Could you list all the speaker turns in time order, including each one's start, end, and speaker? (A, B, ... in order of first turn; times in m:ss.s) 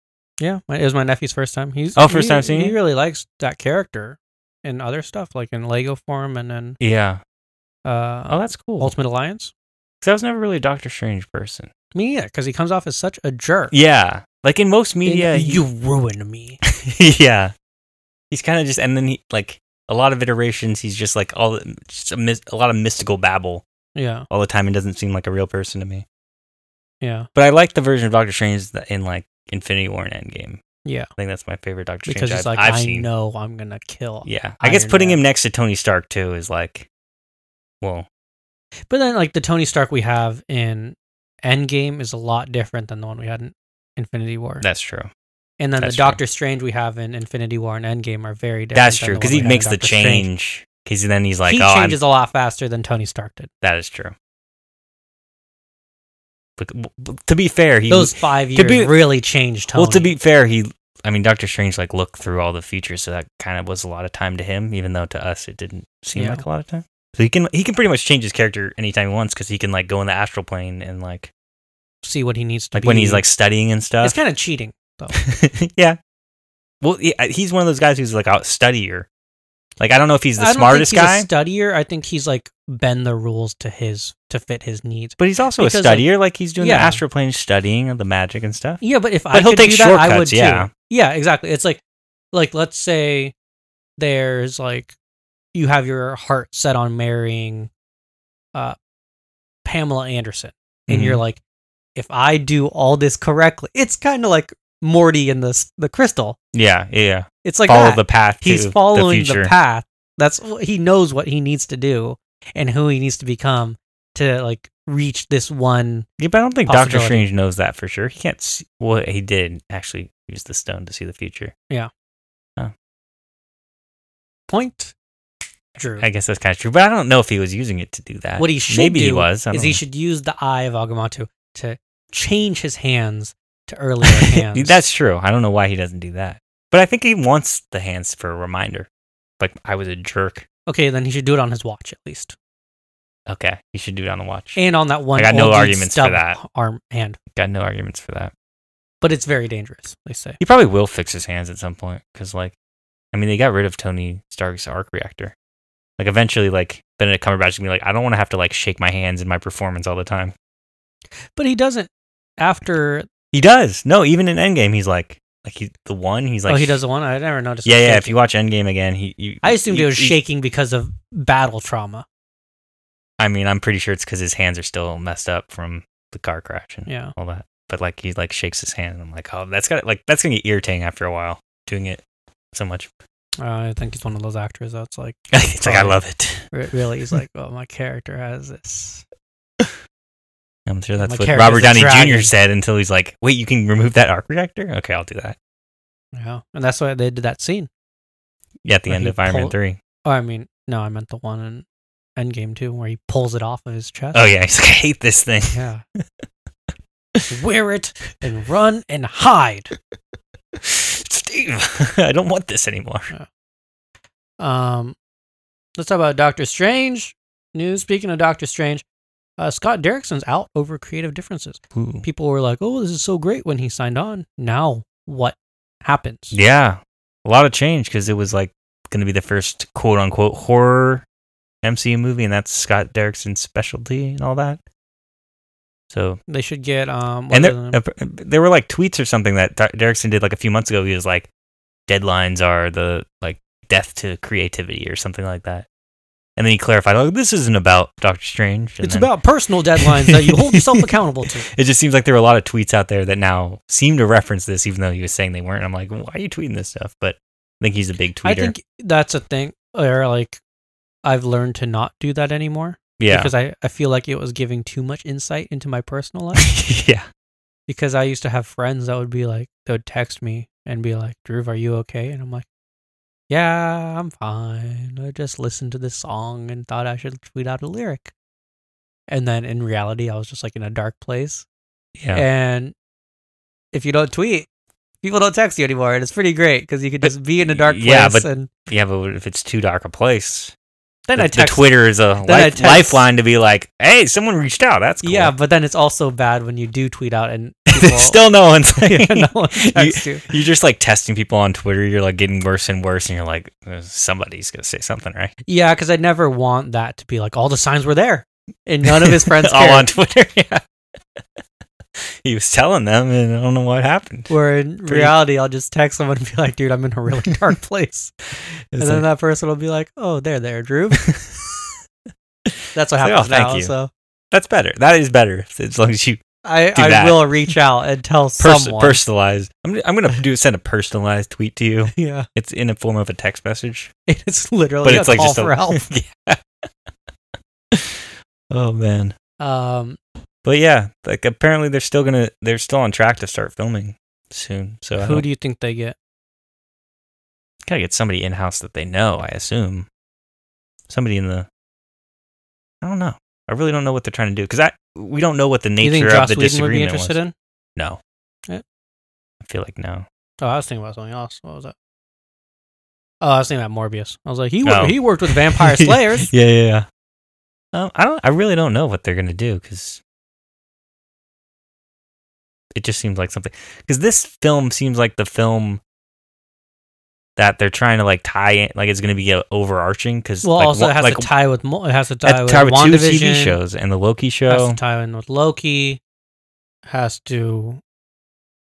0:00.4-0:06.8 A
0:02.0-0:02.8 B
0:06.8-0:07.2 B
0:07.8-0:09.5 A
0:08.3-0:08.9 B
0:10.0-0:11.7 B
0:11.9-0:13.7 A
0:13.7-0:15.6 B
0:15.0-0:16.6 A
0:16.6-0:17.5 B
0:18.3-0:23.6 B
0:23.9-0:24.3 A
0:24.3-0:26.0 B
0:27.0-0:27.3 A
0:27.3-0:30.6 B
0:31.2-0:33.1 B
0:32.0-0:35.2 A
0:34.2-0:36.9 B
0:37.8-0:38.1 B
0:38.9-0:44.6 A
0:44.6-0:45.1 B
0:45.6-0:50.3 A
0:45.8-0:46.2 B
0:48.7-0:52.0 B
0:51.4-0:53.5 A
0:53.6-0:54.1 B
0:56.6-0:59.0 B
0:57.9-1:00.1 A
0:59.7-1:11.3 B
1:06.1-1:06.4 A
1:12.0-1:13.2 A
1:12.7-1:14.2 B
1:14.0-1:15.2 A
1:15.1-1:16.0 B
1:16.8-1:19.1 B
1:19.8-1:21.3 B
1:20.4-1:27.0 A
1:25.2-1:30.7 B
1:28.8-1:33.3 A
1:34.0-1:34.9 A
1:35.5-1:37.7 A
1:39.6-1:41.4 A
1:40.9-1:41.2 B
1:42.0-1:46.4 A
1:46.5-1:49.5 B
1:47.4-1:56.1 A
1:56.2-2:01.5 B
1:56.6-1:57.3 A
2:04.5-2:04.9 A
2:05.8-2:06.0 A
2:06.0-2:09.8 B
2:08.4-2:14.8 A
2:14.1-2:18.9 B
2:19.4-2:20.4 B
2:20.7-2:22.4 A
2:23.3-2:24.6 B
2:24.6-2:27.2 A
2:25.1-2:26.4 B
2:27.3-2:28.3 B
2:29.0-2:30.4 A
2:30.4-2:32.5 B
2:33.1-2:35.3 B
2:36.0-2:40.3 B
2:41.4-2:43.1 A
2:43.3-2:46.8 B
2:46.5-2:48.2 A
2:47.6-2:50.2 B
2:49.4-2:52.0 A
2:53.2-3:02.0 B
2:56.9-2:57.1 A
3:02.5-3:02.9 B
3:03.4-3:09.0 A
3:05.3-3:06.4 B
3:10.7-3:15.4 B
3:11.0-3:12.3 A
3:16.1-3:17.7 A
3:18.6-3:19.8 B
3:18.9-3:24.3 A
3:24.1-3:26.0 B
3:25.5-3:25.8 A
3:27.3-3:29.7 A
3:30.6-3:33.1 B
3:34.4-3:35.0 A
3:35.8-3:38.8 A
3:39.4-3:46.4 A
3:41.7-3:42.0 B
3:46.3-3:51.0 B
3:51.6-3:54.6 B
3:55.9-3:56.2 B
3:56.3-3:57.8 A
3:57.3-4:01.3 B
4:01.9-4:05.7 B
4:06.4-4:09.1 B
4:08.8-4:11.5 A
4:09.8-4:10.9 B
4:11.5-4:18.5 B
4:18.2-4:20.4 A
4:21.0-4:26.5 A
4:23.0-4:23.3 B
4:26.4-4:27.0 B
4:27.7-4:32.4 A
4:33.3-4:38.1 A
4:39.1-4:41.4 A
4:42.0-4:42.2 B
4:42.1-4:42.7 A
4:43.7-4:44.5 A
4:45.0-4:48.5 A
4:47.0-4:50.5 B
4:51.1-4:53.0 A
4:51.2-4:55.3 B
4:55.0-4:58.2 A
4:57.7-5:05.3 B
4:58.8-5:00.3 A
5:05.5-5:09.9 A
5:08.8-5:10.6 B
5:12.0-5:14.3 B
5:14.3-5:18.1 A
5:14.8-5:15.2 B
5:18.7-5:19.0 B
5:18.8-5:21.1 A
5:21.0-5:21.4 B
5:22.4-5:23.7 B
5:22.7-5:23.9 A
5:24.3-5:26.2 B
5:26.4-5:29.0 A
5:26.7-5:27.4 B
5:28.4-5:33.9 B
5:31.9-5:32.3 A
5:34.1-5:35.9 A
5:34.8-5:36.4 B
5:37.7-5:39.2 B
5:39.4-5:40.0 A
5:40.4-5:45.2 B
5:45.0-5:46.0 A
5:47.6-5:49.9 B
5:50.9-5:51.5 B
5:52.8-5:57.2 B
5:55.8-5:57.3 A
5:59.4-6:00.0 B
6:00.4-6:01.7 A
6:03.2-6:06.3 A
6:04.6-6:06.9 B
6:07.7-6:10.0 B
6:12.7-6:15.8 B
6:17.4-6:21.3 B
6:20.4-6:23.6 A
6:22.2-6:24.8 B
6:24.5-6:26.0 A
6:26.9-6:27.8 A